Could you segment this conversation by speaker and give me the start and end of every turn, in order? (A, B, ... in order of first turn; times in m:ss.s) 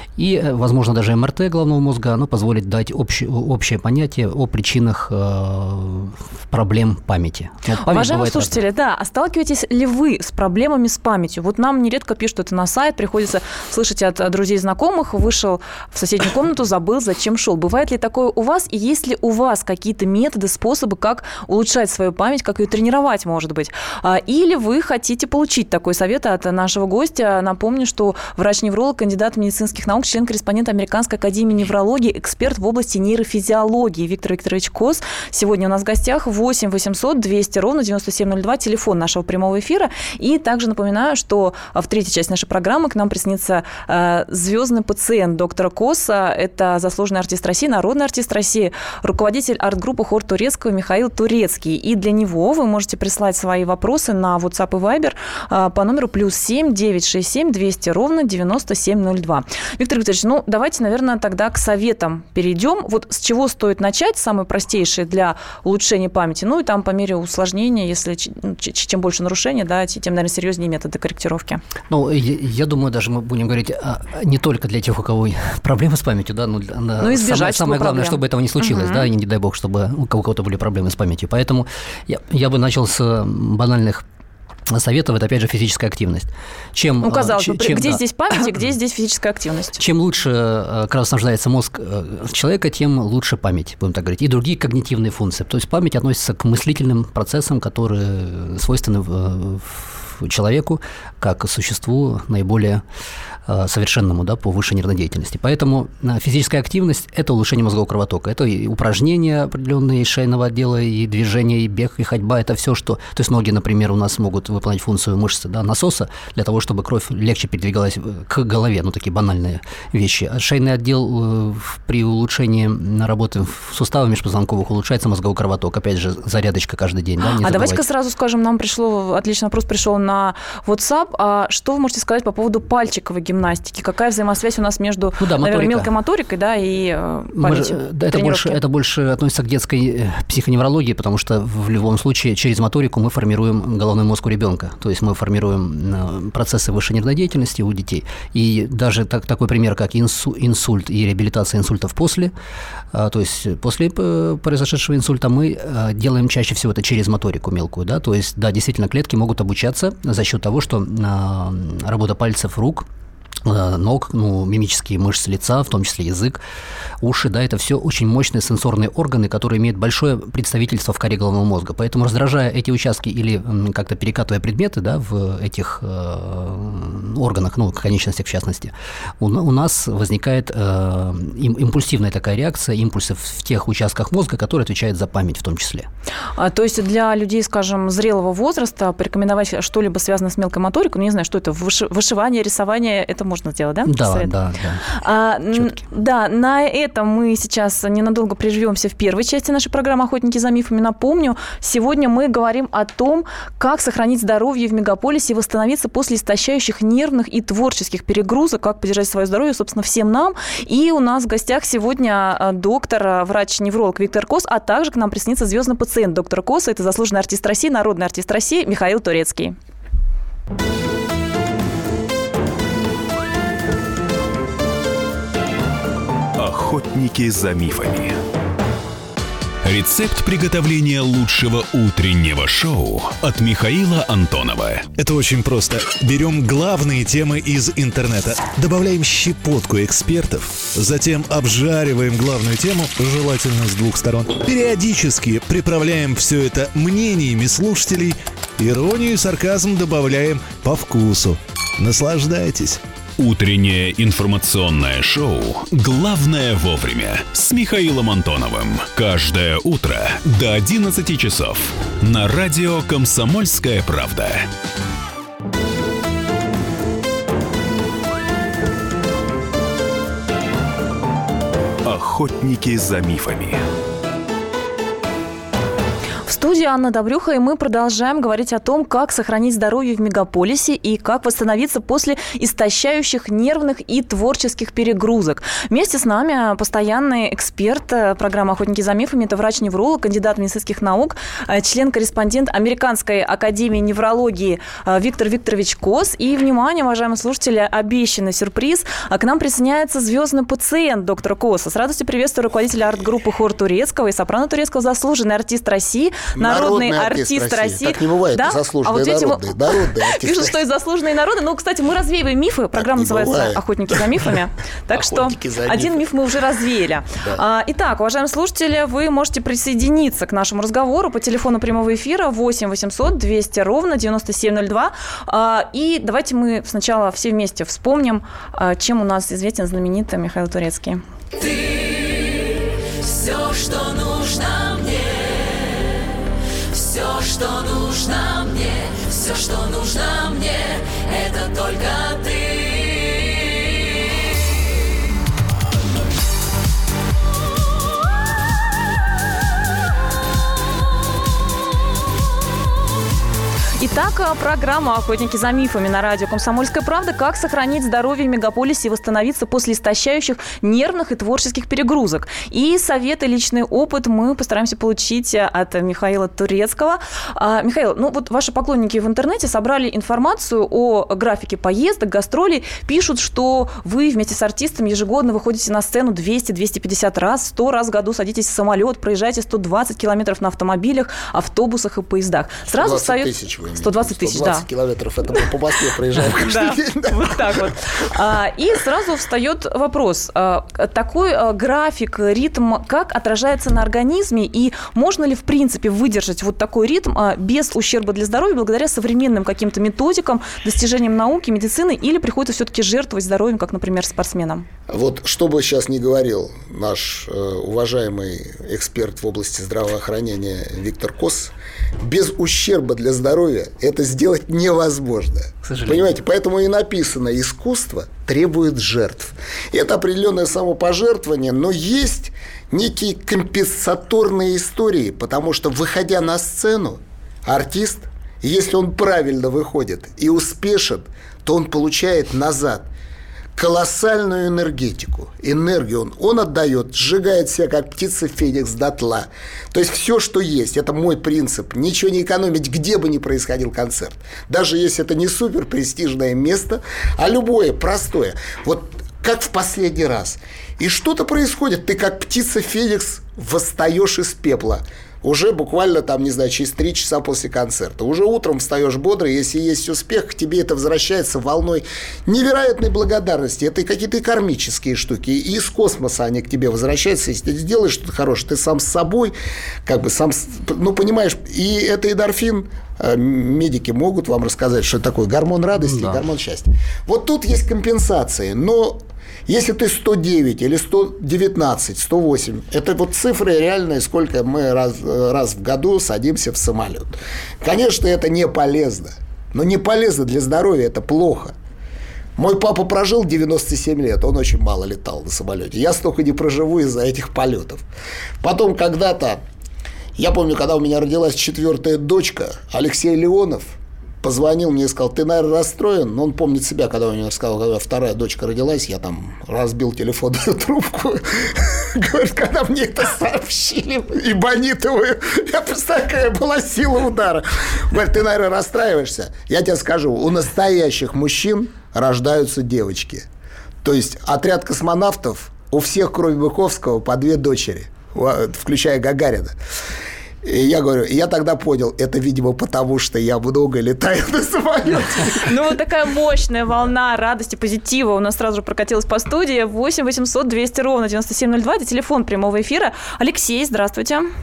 0:00.2-0:08.6 A
0:07.8-1:11.6 B
1:11.9-1:24.0 A
1:17.0-1:19.1 B
1:24.7-1:28.0 A
1:27.0-1:29.8 B
1:29.8-1:42.8 A
1:43.5-2:07.8 A
2:07.3-2:18.6 B
2:15.2-2:15.9 A
2:17.4-2:32.3 A
2:32.9-2:42.9 A
2:43.4-2:46.4 A
2:47.0-3:05.9 A
3:06.4-3:14.3 B
3:13.9-3:14.9 A
3:15.0-3:39.6 B
3:46.4-3:48.2 C
3:49.6-3:54.9 C
3:55.0-4:12.8 D
4:13.2-4:24.5 C
4:31.8-4:33.6 C
4:36.3-5:09.5 B
5:06.4-5:10.6 E
5:10.0-5:31.0 B
5:12.8-5:14.2 E
5:14.9-5:16.1 E
5:33.6-5:34.6 B
5:37.3-5:38.3 B
5:39.3-5:40.3 B
5:53.8-6:24.6 B
6:22.7-6:27.7 E
6:26.2-6:44.7 B
6:44.9-7:12.9 E
6:55.6-6:56.1 A
7:13.6-8:11.6 E
7:55.8-7:56.2 A
8:12.4-8:17.8 E
8:18.4-8:19.4 E
8:20.2-8:43.3 E
8:43.8-8:49.6 E
8:50.4-8:55.8 E
8:55.4-9:04.3 B